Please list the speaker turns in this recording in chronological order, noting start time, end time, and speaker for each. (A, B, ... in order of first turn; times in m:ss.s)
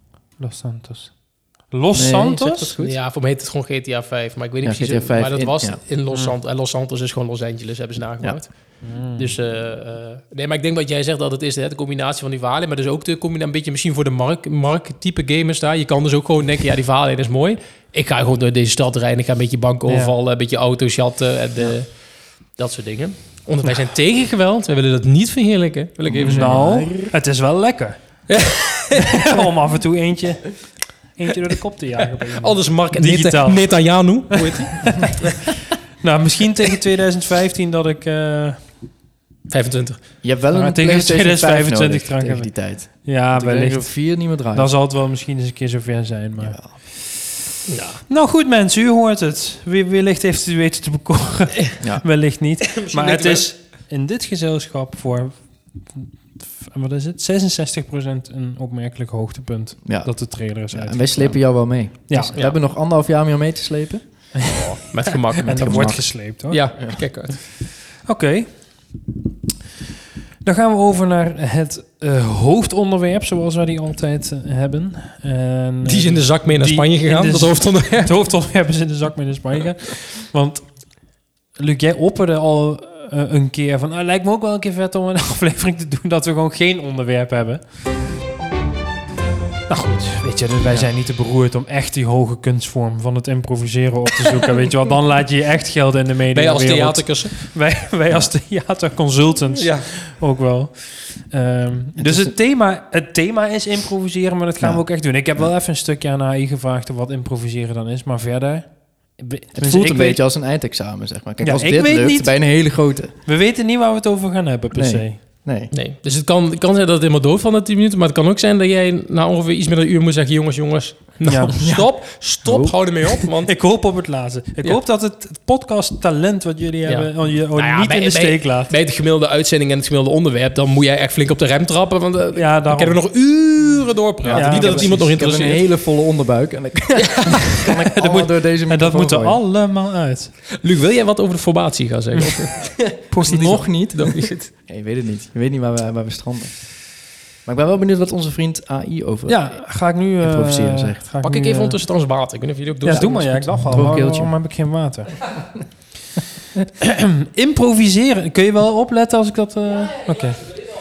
0:00.4-0:02.7 A
0:01.9-0:03.0 B
0:02.8-0:26.7 C
0:04.6-0:05.8 B
0:08.8-0:09.3 A
0:19.9-0:20.1 A
0:26.0-0:27.1 B
0:26.2-0:28.2 A
0:28.3-0:29.4 C
0:29.0-0:35.0 A
0:32.1-0:35.5 C
0:36.0-0:38.6 A
0:39.5-0:40.0 C
0:40.2-0:44.7 B
0:40.5-0:46.8 A
0:46.4-0:46.7 B
0:47.7-0:48.0 C
0:48.1-1:02.4 A
0:51.8-0:52.1 B
0:52.7-0:53.5 C
0:59.8-1:04.3 B
1:04.3-1:04.6 A
1:04.5-1:07.4 C
1:05.4-1:06.6 A
1:05.4-1:06.2 B
1:08.0-1:08.9 A
1:10.4-1:27.7 A
1:15.8-1:18.2 C
1:29.7-1:50.2 A
1:36.3-1:37.5 C
1:39.5-1:39.9 C
1:42.0-1:42.3 B
1:44.6-1:45.5 B
1:49.5-1:53.1 B
1:51.4-1:52.4 A
1:53.2-1:55.2 A
1:54.7-1:55.7 B
1:55.7-2:03.5 C
2:01.2-2:01.5 A
2:01.6-2:02.8 B
2:03.5-2:08.7 A
2:06.8-2:15.6 C
2:12.3-2:13.0 A
2:14.2-2:19.4 B
2:14.3-2:15.0 A
2:17.0-2:17.3 C
2:17.6-2:20.3 A
2:20.6-2:24.5 C
2:23.1-2:23.6 A
2:23.1-2:29.7 B
2:29.3-2:31.8 A
2:30.2-2:31.0 B
2:31.2-2:33.6 C
2:32.8-2:35.2 A
2:32.9-2:34.3 B
2:36.8-2:40.6 A